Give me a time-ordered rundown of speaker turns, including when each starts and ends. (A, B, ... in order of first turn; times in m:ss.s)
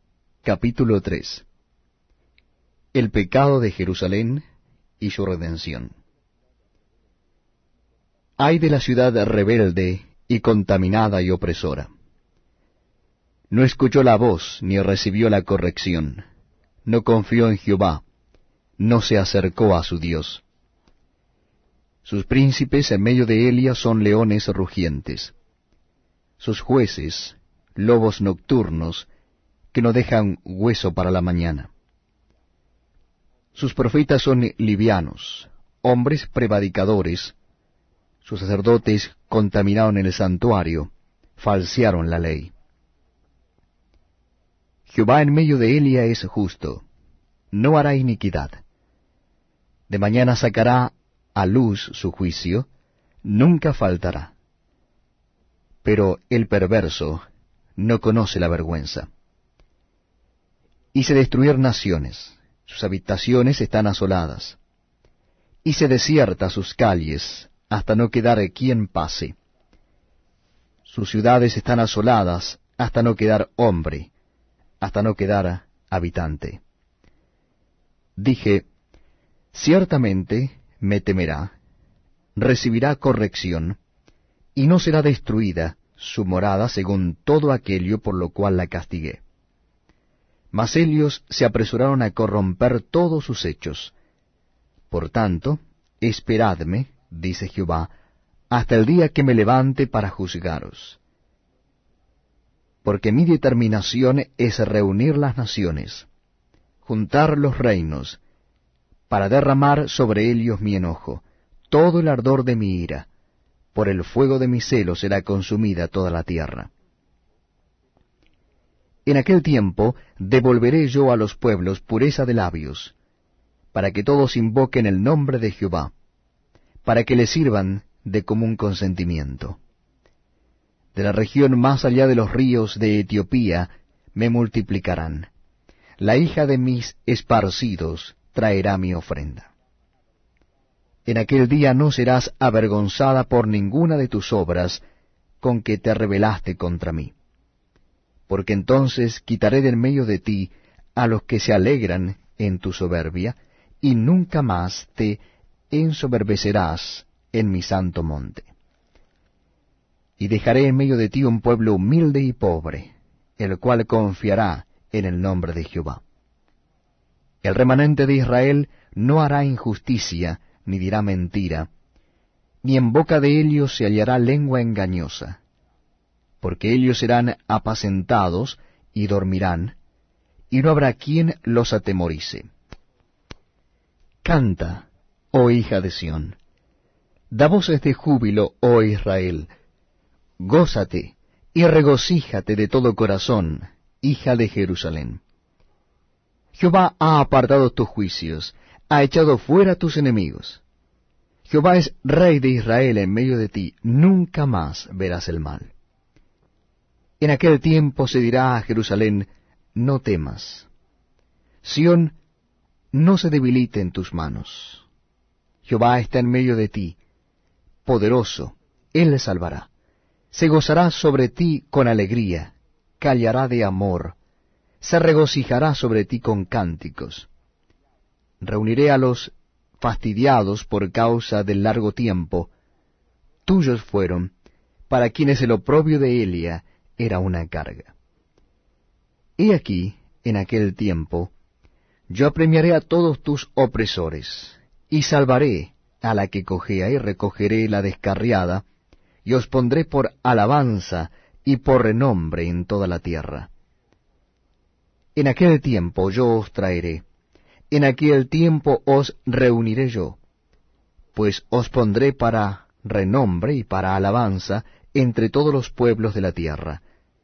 0:00.4-0:01.5 A
0:02.9-0:04.4 A
0:05.0-0:05.9 A
0:08.4-0:11.9 A
0:13.5-0:16.3 A
0:16.9-0:18.0 A
0:18.8-0:20.4 A
0:22.0-0:25.3 A
0:26.4-0:29.1 A
0:29.7-0:31.7 A
0:33.6-0:37.4 A
0:38.2-0:42.5 A
0:44.9-0:46.8 A
0:47.5-0:48.6 A
0:49.9-0:52.7 A
0:53.2-0:54.3 A
0:55.8-0:57.2 A
0:57.8-0:59.1 A
1:00.9-1:04.6 A
1:05.6-1:09.4 A
1:10.9-1:14.1 A
1:14.8-1:16.6 A
1:18.2-1:18.7 A
1:19.5-1:21.6 A
1:22.4-1:23.8 A
1:24.6-1:29.2 A
1:30.5-1:33.9 A
1:34.9-1:37.9 A
1:38.5-1:41.0 A
1:42.8-1:46.1 A
1:46.8-1:48.2 A
1:49.1-1:53.1 A
1:53.7-1:56.7 A
1:59.1-2:03.0 A
2:03.7-2:05.9 A
2:06.8-2:09.6 A
2:11.0-2:15.3 A
2:16.0-2:19.5 A
2:21.1-2:24.8 A
2:25.4-2:27.1 A
2:28.3-2:38.5 A
2:40.2-2:46.0 A
2:47.4-2:51.7 A
2:52.6-2:55.4 A
2:56.4-2:59.8 A
3:00.5-3:02.5 A
3:04.2-3:06.4 A
3:07.3-3:09.5 A
3:10.4-3:15.2 A
3:16.6-3:20.6 A
3:21.5-3:25.7 A
3:27.2-3:30.7 A
3:31.6-3:32.2 A
3:32.9-3:34.8 A
3:35.6-3:37.0 A
3:37.8-3:39.7 A
3:40.3-3:44.2 A
3:44.8-3:47.3 A
3:48.4-3:52.5 A
3:53.4-3:54.3 A
3:54.9-3:57.9 A
3:59.4-4:01.3 A
4:02.1-4:08.6 A
4:09.2-4:13.5 A
4:15.2-4:17.0 A
4:17.7-4:20.2 A
4:21.2-4:26.8 A